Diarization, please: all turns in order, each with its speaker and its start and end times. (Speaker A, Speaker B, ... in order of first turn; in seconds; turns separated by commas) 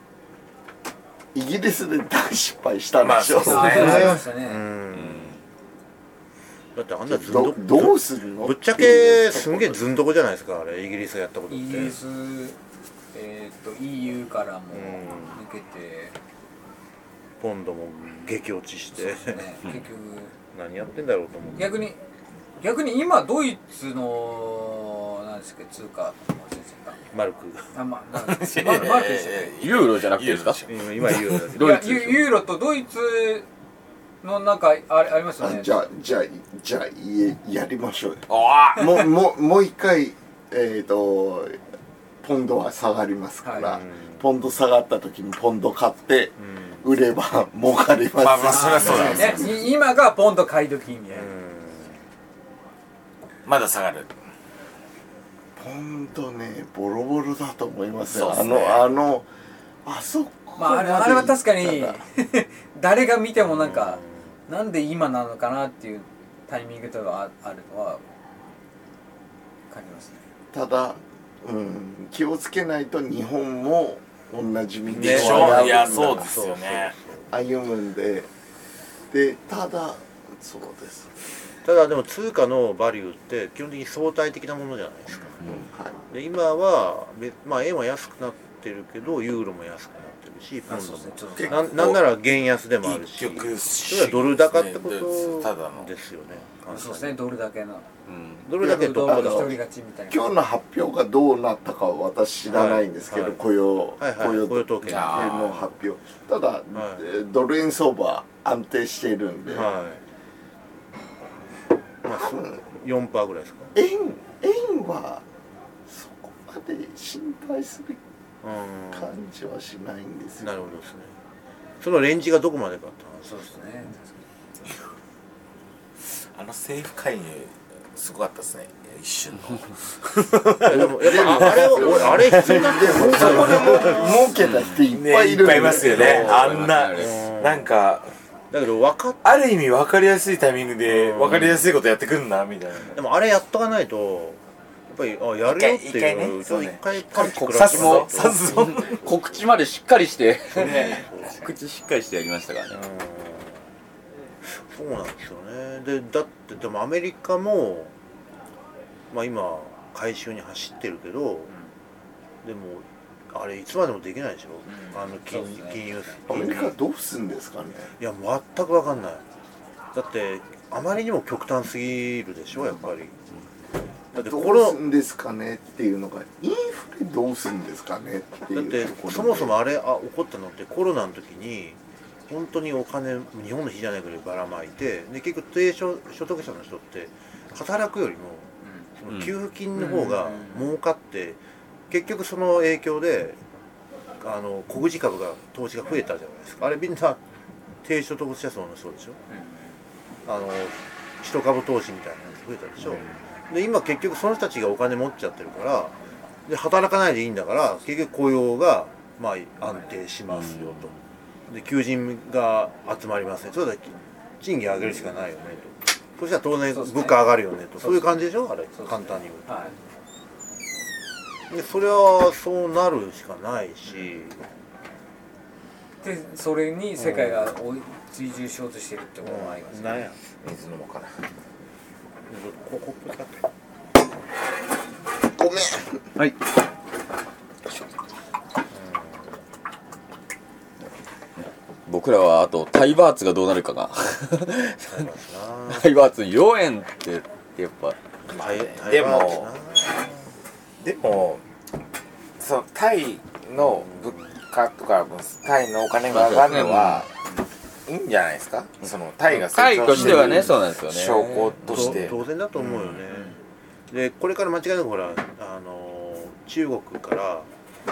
Speaker A: 1.3-4.1, Speaker B: 3.0-4.2, Speaker C: 3.4-4.6, Speaker D: 3.5-5.4, Speaker E: 4.9-5.3, Speaker D: 6.7-12.0, Speaker A: 7.1-9.8, Speaker C: 11.5-12.6, Speaker C: 13.1-16.1, Speaker D: 14.7-15.4, Speaker D: 17.4-19.4, Speaker C: 18.9-20.3, Speaker D: 20.5-21.8, Speaker C: 21.6-22.0, Speaker C: 22.6-27.0, Speaker D: 27.1-27.6, Speaker C: 27.7-29.6, Speaker B: 28.2-30.7, Speaker E: 29.6-32.2, Speaker D: 30.7-32.0, Speaker C: 31.6-33.5, Speaker C: 34.2-35.8, Speaker A: 35.4-38.2, Speaker B: 38.3-39.0, Speaker A: 38.8-41.6, Speaker A: 42.2-49.7, Speaker C: 43.4-43.8, Speaker D: 43.6-44.2, Speaker D: 46.4-46.8, Speaker B: 48.2-49.5, Speaker C: 48.5-51.3, Speaker D: 51.1-52.0, Speaker B: 53.5-54.1, Speaker A: 55.6-59.3, Speaker B: 58.1-58.9, Speaker A: 59.8-62.0, Speaker C: 60.6-68.0, Speaker D: 63.4-64.2, Speaker C: 69.7-70.2, Speaker A: 70.5-76.3, Speaker D: 74.9-77.3, Speaker B: 75.0-76.9, Speaker A: 77.3-78.3, Speaker A: 79.1-81.1, Speaker D: 81.6-85.6, Speaker A: 85.5-86.0, Speaker D: 86.1-97.2, Speaker C: 90.7-91.7, Speaker B: 91.4-92.1, Speaker B: 92.8-95.9, Speaker C: 96.7-97.8, Speaker E: 98.1-98.4, Speaker D: 98.4-99.6, Speaker A: 98.6-99.6, Speaker C: 98.6-100.3, Speaker A: 100.1-109.7, Speaker D: 102.5-103.4, Speaker D: 104.0-105.6, Speaker B: 104.8-105.5, Speaker D: 106.7-107.0, Speaker D: 109.5-110.0, Speaker D: 112.0-113.7, Speaker A: 112.0-112.6, Speaker A: 113.7-115.2, Speaker A: 115.9-118.0, Speaker D: 118.4-119.2, Speaker A: 118.9-120.5, Speaker D: 120.4-121.1, Speaker D: 121.8-123.5, Speaker C: 123.2-124.2, Speaker B: 126.3-138.1, Speaker D: 130.6-134.2, Speaker A: 131.0-136.4, Speaker E: 134.4-134.8, Speaker D: 135.5-137.7, Speaker E: 136.0-137.1, Speaker D: 138.5-139.2, Speaker B: 139.2-143.0, Speaker D: 140.9-141.7, Speaker D: 142.9-149.4, Speaker B: 145.4-146.8, Speaker E: 147.2-152.8, Speaker B: 147.5-149.0, Speaker B: 150.5-151.0, Speaker D: 150.5-151.5, Speaker D: 152.7-153.7, Speaker D: 154.4-157.9, Speaker D: 159.1-161.5, Speaker D: 162.4-166.7, Speaker C: 164.7-165.7, Speaker A: 166.3-167.9, Speaker D: 168.0-169.2, Speaker D: 169.9-173.2, Speaker A: 174.1-179.5, Speaker D: 174.1-174.8, Speaker D: 178.5-193.4, Speaker C: 189.7-190.7, Speaker D: 194.2-197.2, Speaker D: 197.8-199.2, Speaker D: 200.2-210.9, Speaker E: 210.3-210.9, Speaker D: 211.5-219.5, Speaker C: 216.7-217.2, Speaker C: 217.8-218.1, Speaker C: 218.7-219.7, Speaker D: 221.5-224.4, Speaker C: 226.0-230.1, Speaker D: 227.0-227.5, Speaker D: 229.2-230.3, Speaker B: 230.4-231.1, Speaker D: 232.3-233.4, Speaker A: 235.3-236.0, Speaker D: 238.7-239.4, Speaker E: 241.8-245.0, Speaker D: 244.8-245.9, Speaker E: 245.7-248.0, Speaker D: 248.3-250.2, Speaker B: 248.3-249.5, Speaker B: 250.8-251.4, Speaker B: 252.4-257.1, Speaker D: 253.6-254.3, Speaker E: 256.1-257.1, Speaker B: 257.9-262.1, Speaker E: 259.3-261.9, Speaker D: 261.6-263.3, Speaker D: 263.9-267.5